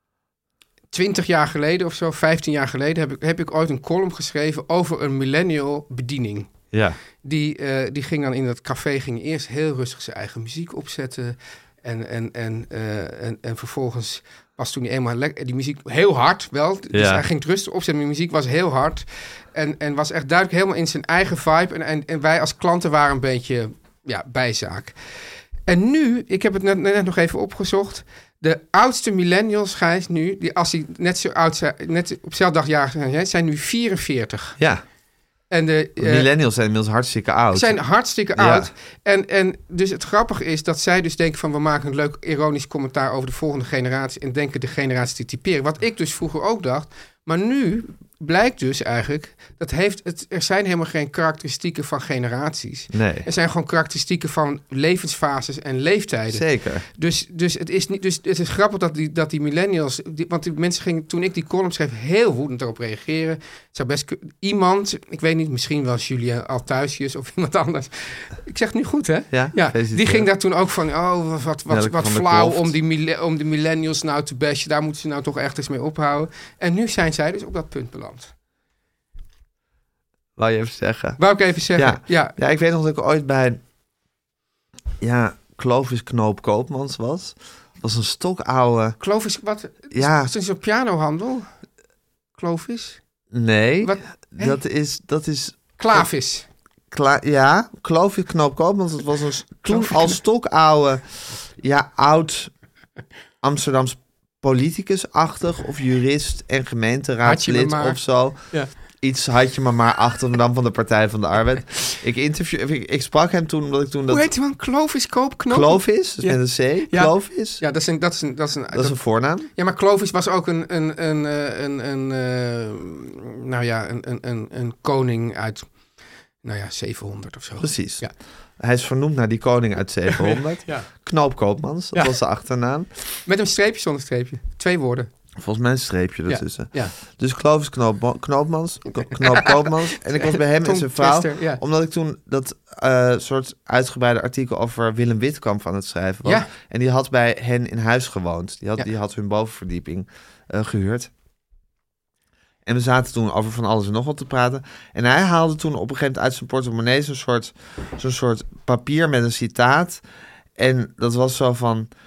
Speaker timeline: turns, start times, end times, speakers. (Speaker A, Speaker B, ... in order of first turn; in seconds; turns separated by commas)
Speaker A: 0.9-6.5, Speaker B: 6.7-7.0, Speaker A: 7.2-24.9, Speaker B: 16.9-17.2, Speaker A: 25.7-34.6, Speaker A: 35.5-36.3, Speaker B: 36.0-37.8, Speaker A: 37.5-78.3, Speaker B: 38.4-38.7, Speaker B: 52.9-53.3, Speaker B: 56.3-56.9, Speaker B: 69.3-70.3, Speaker B: 71.7-72.7, Speaker B: 80.4-81.2, Speaker A: 81.2-82.3, Speaker B: 81.7-83.6, Speaker B: 85.0-89.0, Speaker A: 89.0-91.5, Speaker B: 89.9-90.3, Speaker A: 92.4-93.0, Speaker B: 93.3-96.1, Speaker A: 93.8-94.6, Speaker A: 95.8-96.5, Speaker B: 96.9-101.0, Speaker A: 99.6-100.2, Speaker B: 101.6-102.5, Speaker B: 103.4-108.4, Speaker A: 107.2-108.7, Speaker B: 109.0-114.3, Speaker A: 114.1-125.7, Speaker B: 115.5-117.6, Speaker B: 118.7-119.5, Speaker A: 126.4-128.1, Speaker B: 127.6-128.0, Speaker B: 128.6-132.9, Speaker A: 130.1-130.9, Speaker A: 133.2-135.1, Speaker B: 135.4-151.1, Speaker A: 136.3-136.9, Speaker A: 139.1-141.6, Speaker A: 146.2-146.5, Speaker B: 152.7-160.0, Speaker B: 160.6-161.9